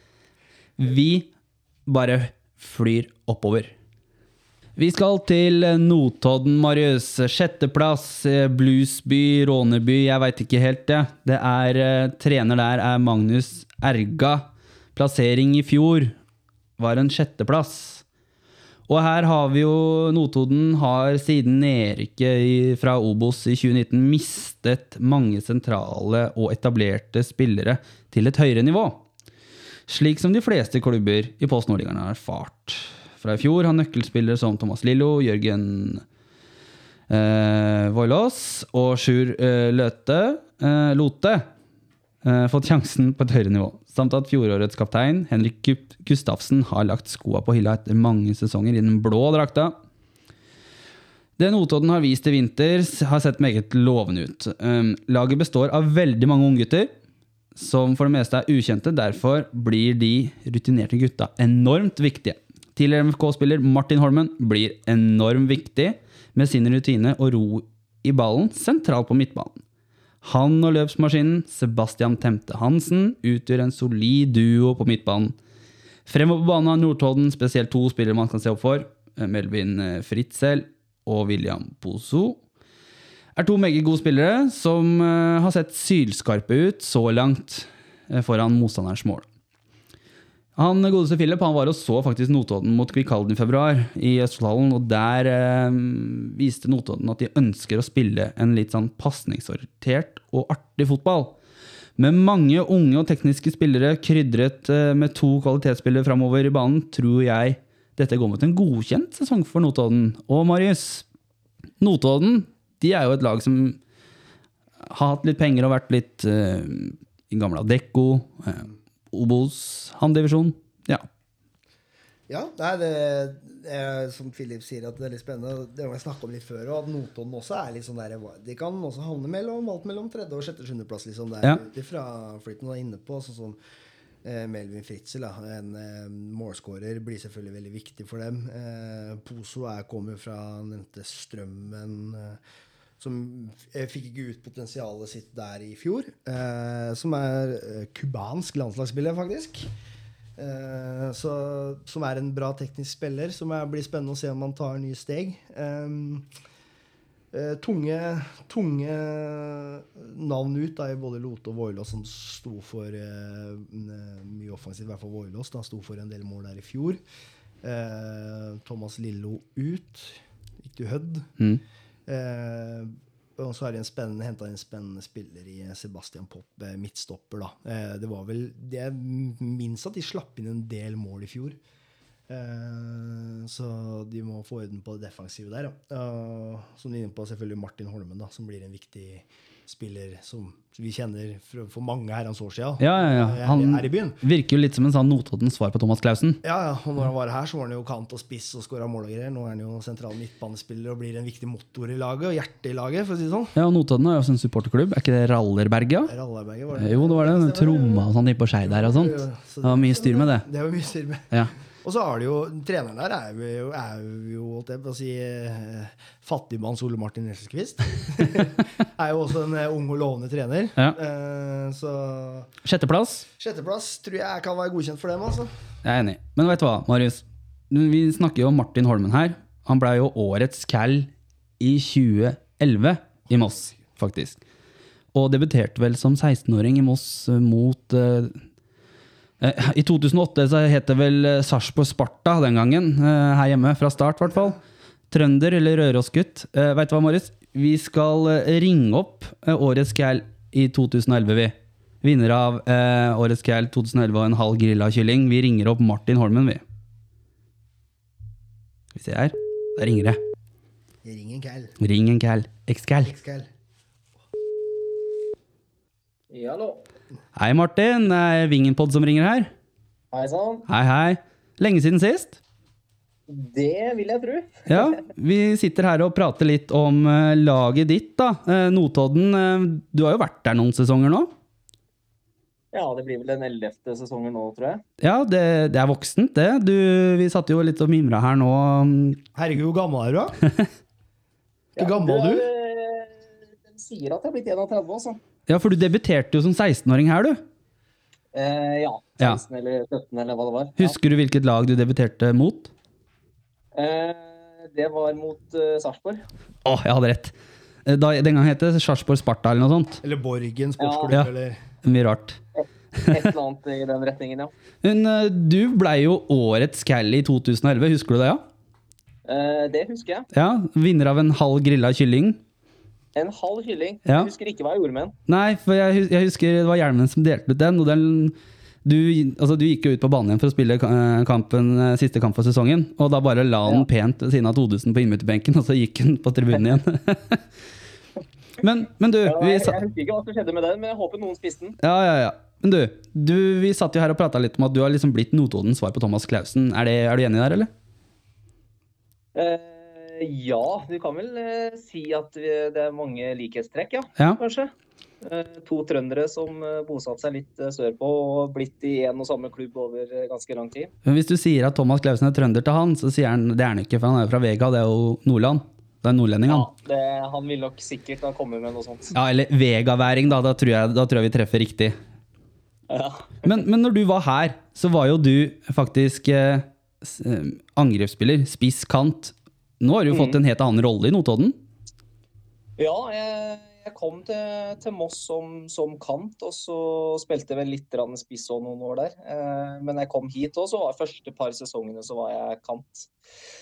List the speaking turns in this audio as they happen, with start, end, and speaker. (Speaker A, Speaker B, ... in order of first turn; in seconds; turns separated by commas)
Speaker A: 0.8-1.3, Speaker A: 1.9-3.7, Speaker A: 4.8-16.1, Speaker A: 16.8-18.0, Speaker A: 18.9-29.0, Speaker A: 29.9-36.0, Speaker A: 37.1-41.5, Speaker A: 42.2-49.7, Speaker A: 51.4-56.9, Speaker A: 57.5-69.6, Speaker A: 70.2-75.3, Speaker A: 76.1-82.4, Speaker A: 83.3-89.2, Speaker A: 90.5-101.3, Speaker A: 102.0-111.0, Speaker A: 111.8-113.8, Speaker A: 114.8-121.0, Speaker B: 122.3-133.6, Speaker B: 134.2-142.4, Speaker B: 143.0-149.7, Speaker B: 150.4-156.3, Speaker B: 157.3-167.0, Speaker B: 167.6-171.3, Speaker B: 172.1-181.6, Speaker B: 182.3-194.2, Speaker A: 192.8-196.4, Speaker B: 196.4-203.5, Speaker A: 203.5-206.1, Speaker B: 206.1-208.1, Speaker A: 206.8-210.4, Speaker B: 208.6-222.5, Speaker A: 222.6-223.2, Speaker B: 223.4-225.5, Speaker A: 225.8-234.4, Speaker A: 235.1-238.4, Speaker A: 239.4-244.6, Speaker A: 245.1-256.6, Speaker A: 258.9-260.2, Speaker B: 261.0-261.7, Speaker A: 261.8-263.1, Speaker B: 263.0-263.5, Speaker C: 266.3-266.8, Speaker A: 267.4-269.5, Speaker C: 270.1-270.7, Speaker A: 270.7-272.4, Speaker C: 273.3-275.0, Speaker A: 274.7-281.3, Speaker C: 282.7-284.8, Speaker A: 285.0-289.2, Speaker B: 289.3-290.4, Speaker B: 291.8-292.5, Speaker C: 291.8-295.2, Speaker A: 295.5-297.4, Speaker C: 298.3-300.9, Speaker A: 300.8-302.7, Speaker C: 303.7-306.2, Speaker A: 306.6-307.3, Speaker A: 307.8-310.0, Speaker B: 310.0-311.6, Speaker C: 310.8-311.2, Speaker A: 311.8-312.4, Speaker C: 312.6-314.5, Speaker A: 314.8-318.4, Speaker C: 319.2-320.3, Speaker A: 320.3-322.4, Speaker C: 323.1-325.1, Speaker A: 325.3-337.4, Speaker A: 338.6-339.8, Speaker C: 339.2-341.8, Speaker A: 341.8-347.7, Speaker C: 349.3-360.9, Speaker A: 361.0-366.7, Speaker C: 366.4-369.1, Speaker A: 369.1-371.9, Speaker C: 372.9-373.5, Speaker A: 373.4-381.6, Speaker C: 380.1-380.4, Speaker C: 382.8-393.1